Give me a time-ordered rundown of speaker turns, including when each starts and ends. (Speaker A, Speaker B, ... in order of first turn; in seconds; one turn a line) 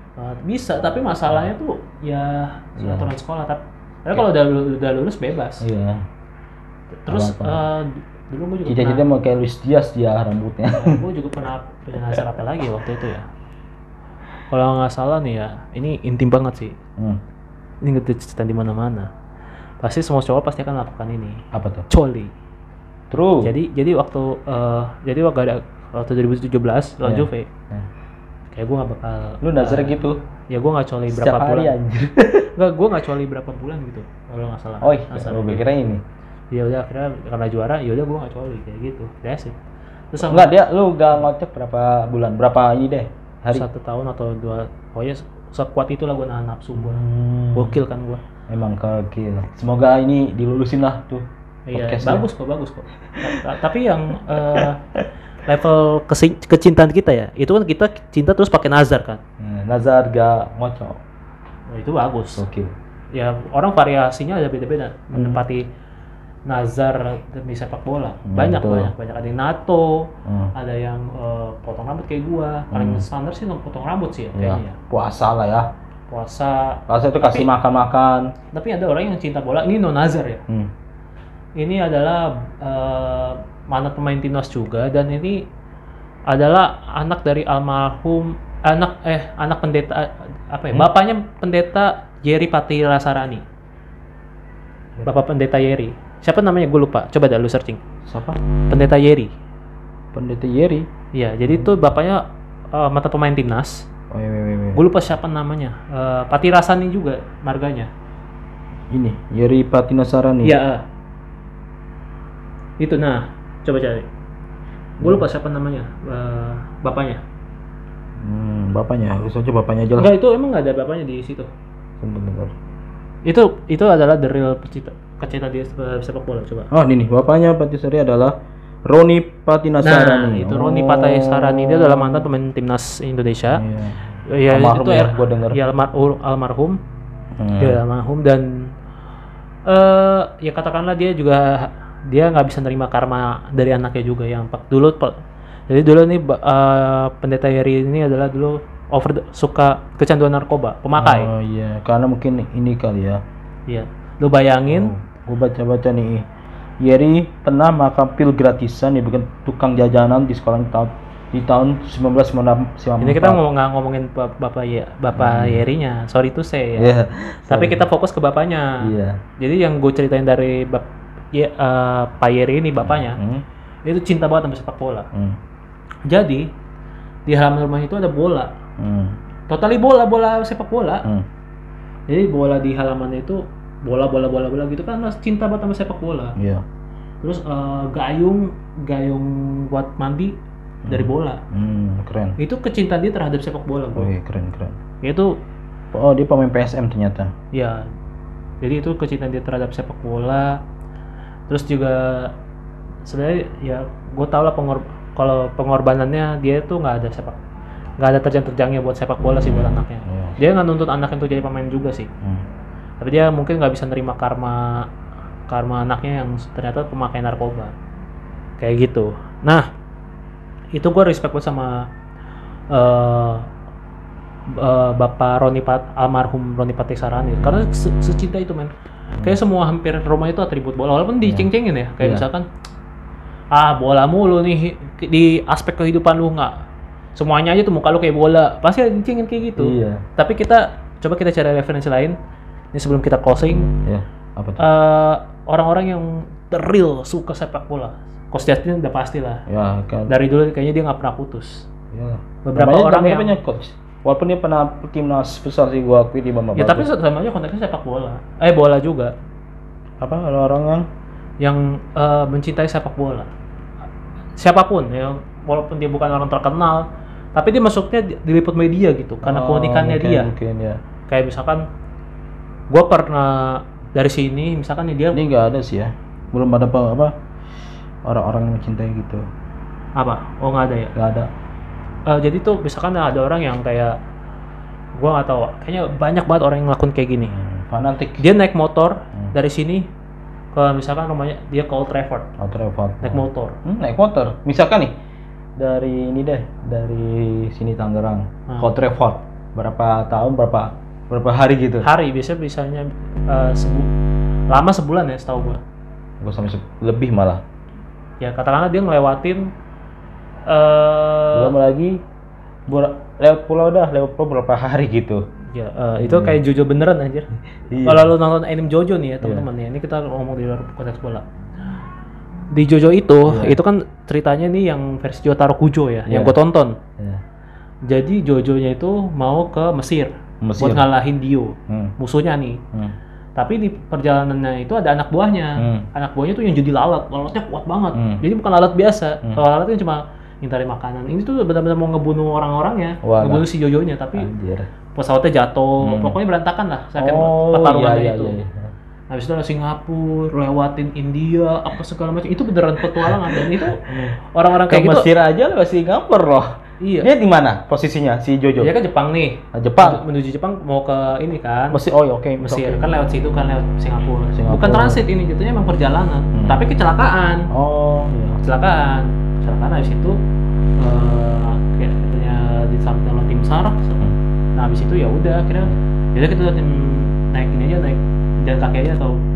Speaker A: 0.2-5.6
Speaker B: 2.8-3.1
Speaker B: 5.6-6.0
Speaker A: 7.0-9.0
Speaker B: 7.1-7.6
Speaker B: 8.7-11.0
Speaker A: 10.7-13.2
Speaker A: 14.5-16.8
Speaker A: 17.8-19.1
Speaker A: 19.8-22.3
Speaker B: 21.5-21.9
Speaker B: 23.1-23.5
Speaker A: 23.4-27.5
Speaker B: 27.0-27.9
Speaker A: 28.5-30.0
Speaker B: 29.4-30.2
Speaker A: 30.5-31.7
Speaker B: 31.1-32.5
Speaker A: 32.5-35.6
Speaker B: 34.8-36.0
Speaker A: 36.5-39.6
Speaker A: 40.1-40.5
Speaker B: 40.2-43.6
Speaker A: 43.5-47.0
Speaker B: 46.7-47.8
Speaker A: 47.5-48.2
Speaker B: 48.5-52.2
Speaker A: 51.7-54.8
Speaker A: 55.4-59.2
Speaker B: 59.4-61.0
Speaker A: 61.7-62.5
Speaker B: 62.4-62.7
Speaker A: 63.1-65.6
Speaker B: 65.1-65.4
Speaker A: 66.5-74.8
Speaker B: 68.3-68.9
Speaker B: 70.2-70.5
Speaker B: 72.7-73.1
Speaker B: 74.3-75.7
Speaker A: 76.1-77.5
Speaker B: 76.9-78.3
Speaker A: 78.5-80.4
Speaker A: 81.6-85.5
Speaker A: 86.3-93.4
Speaker A: 95.0-97.8
Speaker B: 98.1-98.4
Speaker A: 98.7-99.3
Speaker B: 100.1-100.9
Speaker A: 101.1-103.9
Speaker B: 104.1-104.8
Speaker A: 104.8-107.9
Speaker B: 108.9-110.5
Speaker A: 110.4-110.8
Speaker A: 112.8-114.1
Speaker A: 115.0-117.2
Speaker B: 118.2-120.1
Speaker A: 120.0-121.5
Speaker B: 122.0-122.5
Speaker A: 123.2-126.7
Speaker B: 126.7-132.3
Speaker A: 129.8-133.6
Speaker B: 133.5-134.0
Speaker A: 134.3-136.8
Speaker B: 134.5-135.6
Speaker B: 137.4-137.8
Speaker A: 137.6-138.7
Speaker A: 139.7-145.2
Speaker A: 145.7-151.3
Speaker B: 151.0-153.2
Speaker A: 153.7-154.9
Speaker B: 154.7-156.2
Speaker B: 156.8-163.4
Speaker A: 163.0-166.9
Speaker B: 165.1-165.6
Speaker B: 166.8-167.8
Speaker A: 167.5-173.2
Speaker B: 168.8-169.2
Speaker B: 172.8-173.4
Speaker A: 173.8-175.1
Speaker B: 175.1-175.4
Speaker A: 176.1-176.5
Speaker A: 177.3-178.5
Speaker B: 178.8-179.2
Speaker A: 179.5-181.1
Speaker A: 182.1-186.3
Speaker B: 186.3-186.6
Speaker A: 187.2-190.3
Speaker B: 190.8-192.4
Speaker A: 190.9-191.4
Speaker A: 192.4-194.1
Speaker B: 194.0-194.8
Speaker A: 195.0-195.3
Speaker B: 195.9-197.3
Speaker A: 197.5-197.8
Speaker A: 198.6-200.6
Speaker A: 201.5-202.3
Speaker A: 203.0-207.4
Speaker A: 208.0-212.1
Speaker B: 209.4-210.3
Speaker A: 213.0-214.8
Speaker A: 215.5-217.7
Speaker A: 218.6-219.7
Speaker A: 220.8-221.8
Speaker A: 222.7-223.5
Speaker A: 224.5-228.7
Speaker A: 229.2-232.4
Speaker B: 231.2-231.5
Speaker B: 232.0-232.2
Speaker A: 233.5-236.6
Speaker A: 237.2-242.2
Speaker B: 239.6-240.0
Speaker A: 242.7-243.7
Speaker B: 243.8-244.7
Speaker A: 244.6-249.5
Speaker B: 249.5-250.1
Speaker A: 250.1-251.7
Speaker B: 251.9-256.9
Speaker A: 252.4-253.3
Speaker A: 256.6-259.1
Speaker B: 260.0-260.9
Speaker A: 261.4-263.3
Speaker A: 264.4-270.3
Speaker B: 269.2-270.8
Speaker A: 271.1-271.6
Speaker A: 272.7-275.2
Speaker B: 275.1-277.1
Speaker B: 278.0-279.2
Speaker A: 280.0-280.9
Speaker B: 280.9-281.3
Speaker A: 282.1-284.0
Speaker A: 285.0-287.4
Speaker B: 287.3-288.2
Speaker A: 288.2-289.9
Speaker A: 290.5-292.3
Speaker B: 292.4-294.9
Speaker A: 293.0-293.6
Speaker B: 295.6-301.9
Speaker A: 301.8-303.9
Speaker A: 304.5-305.6
Speaker B: 306.2-307.4
Speaker A: 308.2-309.5
Speaker A: 310.5-311.5
Speaker B: 311.3-312.0
Speaker B: 312.7-315.2
Speaker A: 315.5-317.3
Speaker B: 316.0-316.4
Speaker B: 317.7-318.1
Speaker A: 317.8-321.2
Speaker A: 322.5-326.8
Speaker B: 323.3-323.6
Speaker B: 326.1-326.4
Speaker A: 327.9-332.6
Speaker B: 330.4-330.9
Speaker B: 331.7-331.9
Speaker A: 333.4-344.3
Speaker B: 335.6-335.9
Speaker B: 337.9-338.2
Speaker B: 343.0-343.5
Speaker B: 344.1-344.7
Speaker A: 344.9-348.4
Speaker B: 345.8-346.1
Speaker B: 347.0-348.7
Speaker A: 349.1-355.1
Speaker B: 352.9-354.2
Speaker B: 354.7-356.5
Speaker A: 356.8-357.1
Speaker B: 357.0-358.7
Speaker A: 358.6-361.8
Speaker B: 359.5-360.0
Speaker B: 361.7-362.9
Speaker A: 362.4-367.5
Speaker B: 364.4-365.0
Speaker B: 366.3-366.6
Speaker B: 367.5-368.4
Speaker A: 368.4-370.2
Speaker A: 370.8-374.0
Speaker A: 374.6-379.1